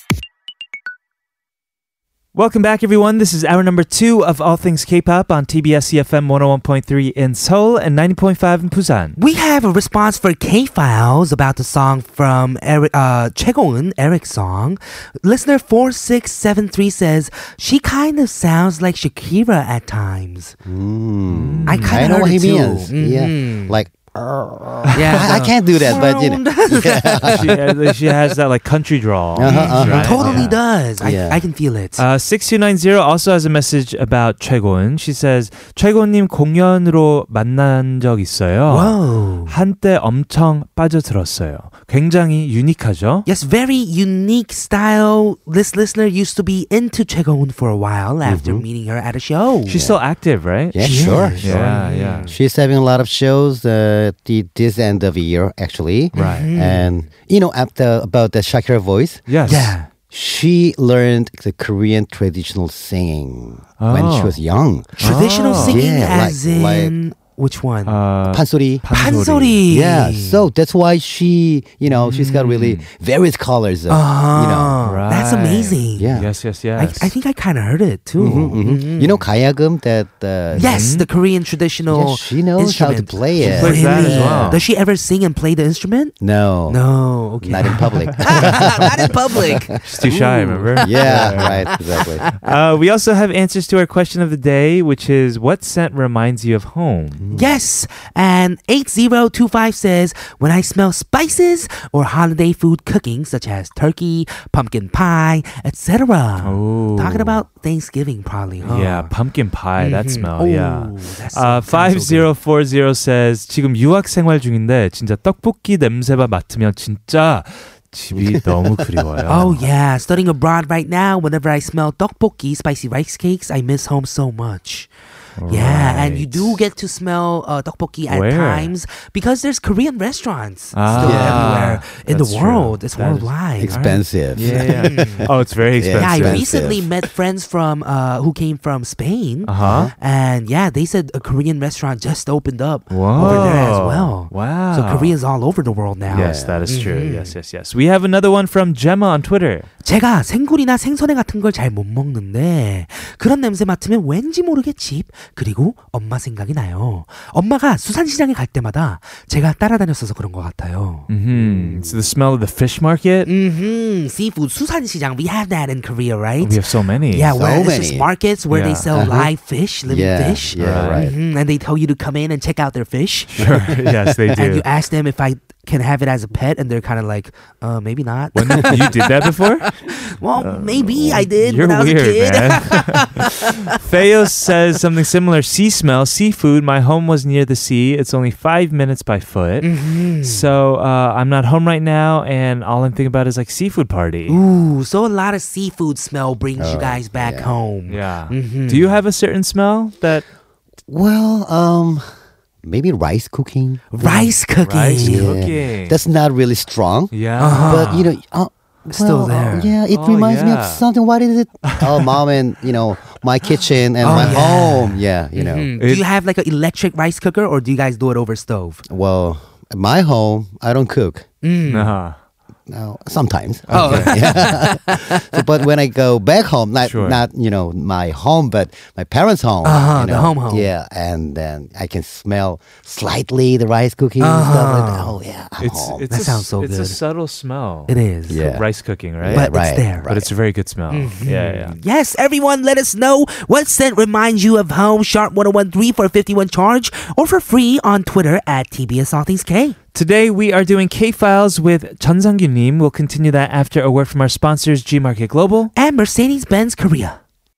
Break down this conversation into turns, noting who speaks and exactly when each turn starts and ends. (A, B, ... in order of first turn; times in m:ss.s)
0:02.3-0:09.2 A
0:09.2-0:20.5 B
0:20.6-0:27.6 C
0:21.3-0:22.0 A
0:21.7-0:23.8 B
0:24.9-0:27.5 B
0:27.3-0:30.6 A
0:29.3-0:31.4 C
0:29.4-0:32.0 B
0:32.0-0:43.3 A
0:38.7-0:39.5 B
0:43.2-0:50.0 B
0:48.2-0:48.6 C
0:49.7-0:52.3 A
0:50.7-0:51.7 C
0:50.8-0:52.3 B
0:52.3-0:59.3 C
0:56.1-0:56.9 B
0:56.1-0:56.5 A
0:59.3-0:59.7 A
0:59.4-0:59.9 B
1:00.1-1:06.9 C
1:03.8-1:04.4 A
1:05.0-1:05.8 A
1:05.0-1:08.0 B
1:07.8-1:09.6 A
1:08.3-1:08.8 C
1:08.9-1:10.4 B
1:09.7-1:14.8 C
1:11.8-1:12.8 A
1:13.9-1:16.1 B
1:14.8-1:17.1 A
1:16.0-1:16.3 C
1:16.8-1:19.2 B
1:18.2-1:20.8 C
1:20.5-1:26.1 B
1:20.6-1:21.1 A
1:21.9-1:24.6 C
1:23.4-1:24.6 A
1:26.2-1:26.8 C
1:26.7-1:32.4 B
1:27.4-1:32.3 C
1:28.3-1:28.6 A
1:29.7-1:31.7 A
1:32.3-1:37.2 A
1:37.2-1:37.5 C
1:37.3-1:49.1 B
1:46.4-1:47.4 A
1:48.6-1:59.7 A
1:49.8-1:52.3 B
1:58.1-1:59.2 C
1:59.3-2:04.9 B
2:05.4-2:06.6 A
2:05.5-2:13.8 B
2:08.1-2:08.7 A
2:10.7-2:16.4 A
2:10.9-2:11.5 C
2:13.6-2:16.9 C
2:14.4-2:15.2 B
2:16.0-2:27.3 B
2:19.4-2:19.9 A
2:19.6-2:19.9 C
2:22.9-2:25.1 A
2:23.1-2:23.6 C
2:26.1-2:26.7 C
2:26.1-2:29.7 A
2:29.8-2:41.1 B
2:41.1-2:43.3 A
2:41.3-2:41.9 C
2:43.2-2:46.6 B
2:46.4-2:47.3 A
2:47.1-2:53.5 B
2:47.3-2:48.1 C
2:48.5-2:48.9 A
2:48.9-2:49.3 C
2:49.9-2:51.1 C
2:50.6-2:51.0 A
2:53.3-2:54.6 A
2:53.4-2:54.2 C
2:54.3-3:03.8 B
2:58.3-2:59.7 A
3:00.4-3:09.7 A
3:09.6-3:10.4 B
3:10.2-3:14.4 A
3:14.3-3:18.9 B
3:16.6-3:17.5 C
3:17.9-3:20.2 A
3:20.9-3:22.1 C
3:22.6-3:24.0 C
3:23.9-3:25.4 B
3:24.0-3:26.0 A
3:25.0-3:35.7 C
3:27.1-3:27.9 A
3:27.4-3:28.0 B
3:28.9-3:29.7 B
3:29.9-3:30.8 A
3:31.7-3:32.1 A
3:34.0-3:38.8 B
3:34.1-3:34.4 A
3:35.8-3:36.0 A
3:38.9-3:41.2 C
3:41.4-3:41.9 B
3:41.7-3:42.2 A
3:42.7-3:56.0 C
3:43.7-3:44.3 A
3:43.7-3:45.2 B
3:46.8-3:47.2 A
3:49.6-3:50.7 B
3:54.2-3:55.1 B
3:55.6-3:59.5 A
3:56.1-3:57.0 B
3:57.9-3:58.4 B
3:58.3-3:58.6 C
3:59.2-4:00.3 C
3:59.3-4:00.1 B
4:00.0-4:01.8 A
4:00.9-4:09.8 B
4:09.9-4:15.7 A
4:15.7-4:17.2 B